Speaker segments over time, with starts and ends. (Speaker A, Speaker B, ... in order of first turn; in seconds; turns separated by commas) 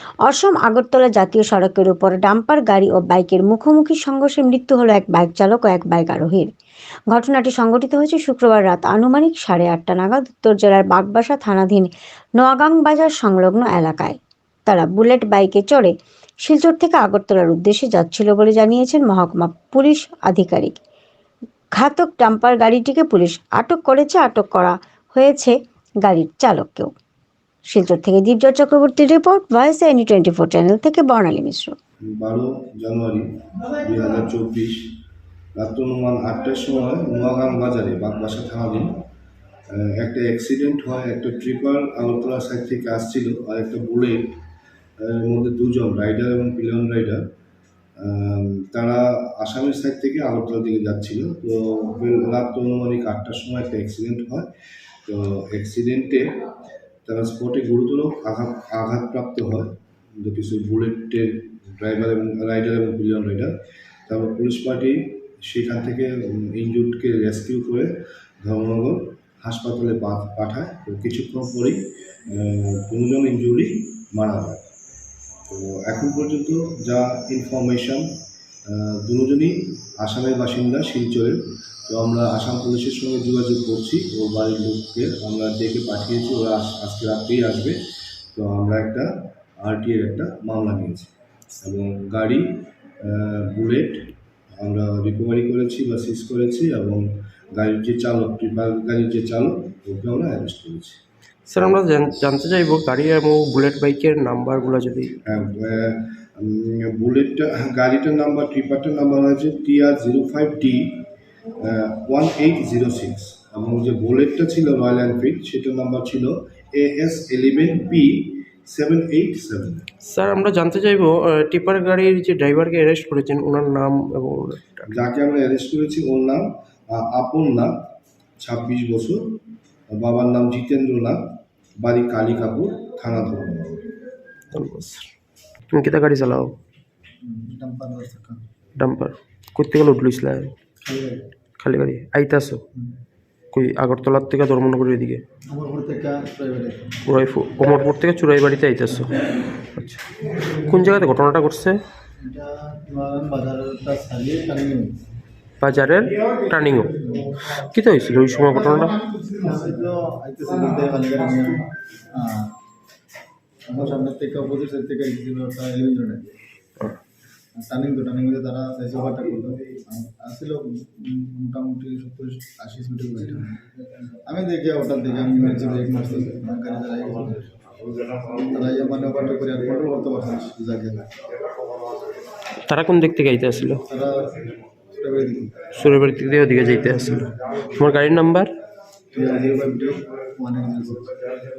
Speaker A: 0.2-6.5, Speaker A: 7.1-15.9, Speaker A: 16.4-20.8, Speaker A: 21.8-26.9, Speaker A: 27.7-31.8, Speaker B: 32.1-34.9, Speaker B: 35.6-39.1, Speaker B: 39.7-44.4, Speaker B: 45.0-47.3, Speaker B: 48.0-54.5, Speaker B: 55.1-56.4, Speaker B: 57.1-63.5, Speaker B: 64.1-74.7, Speaker B: 75.5-78.1, Speaker B: 78.7-87.8, Speaker B: 88.3-101.0, Speaker C: 101.5-105.2, Speaker B: 105.2-119.9, Speaker C: 120.0-124.9, Speaker B: 124.9-127.9, Speaker B: 128.4-129.4, Speaker B: 129.9-131.2, Speaker B: 131.8-133.9, Speaker C: 134.5-135.1, Speaker C: 135.7-136.6, Speaker D: 137.2-138.4, Speaker C: 138.8-140.5, Speaker D: 140.8-141.3, Speaker C: 141.6-142.6, Speaker C: 143.5-145.2, Speaker D: 145.5-147.0, Speaker C: 147.1-150.0, Speaker C: 150.6-151.8, Speaker D: 152.2-154.9, Speaker C: 155.6-159.0, Speaker D: 159.1-162.5, Speaker D: 163.7-166.3, Speaker D: 167.6-181.1, Speaker C: 182.7-183.8, Speaker D: 183.9-185.8, Speaker C: 185.7-188.5, Speaker D: 189.1-191.2